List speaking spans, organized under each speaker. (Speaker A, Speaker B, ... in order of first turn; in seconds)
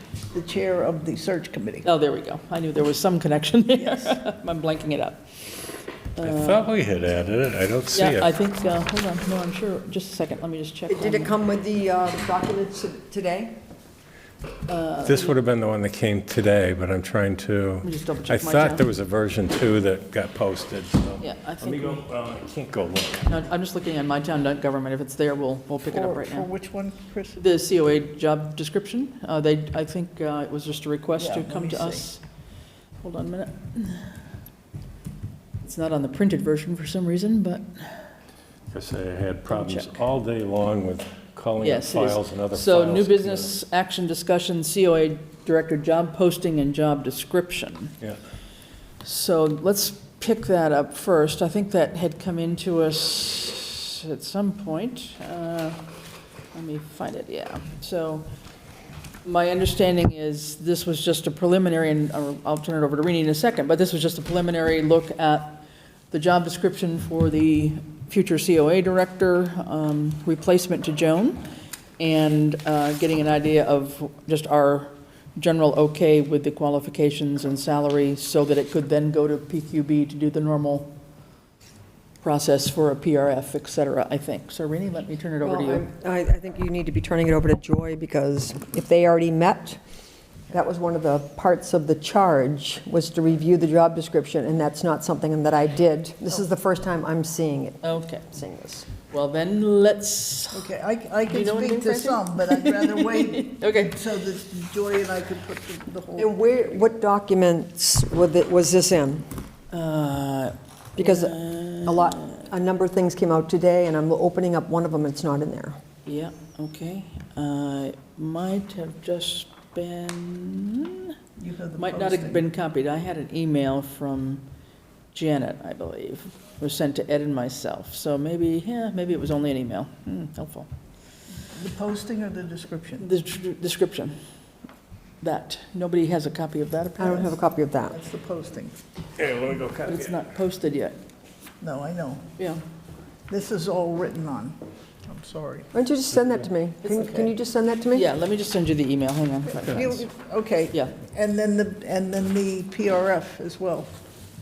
Speaker A: 0.3-1.9, 3.8-4.1, 25.9-27.4, 31.2-32.0, 100.5-106.3, 121.4-122.5, 131.5-133.1, 137.9-138.8, 141.6-142.2, 143.3-145.7, 149.5-153.9
Speaker B: 1.8-5.5, 6.2-6.6, 7.9-11.3, 14.7-15.3, 17.8-18.8, 21.2-22.1, 23.3-26.5, 27.4-32.2, 33.0-34.1, 35.6-37.8, 39.5-39.9, 41.6-48.0, 49.0-55.8, 56.5-58.3, 59.2-71.4, 72.0-81.0, 82.2-85.8, 97.8-98.2, 99.1-100.6, 101.3-103.9, 109.7-112.2, 116.0-121.1, 121.8-124.5, 125.1-130.7, 133.0-134.2, 135.2-137.3, 139.8-141.0, 146.8-147.3, 147.9-150.1
Speaker C: 6.2-8.3, 15.0-23.2, 38.7-43.5, 139.2-140.2
Speaker D: 10.9-13.5, 85.4-89.8, 90.5-98.9, 106.2-109.3, 111.0-115.8, 137.0-138.0, 145.7-148.1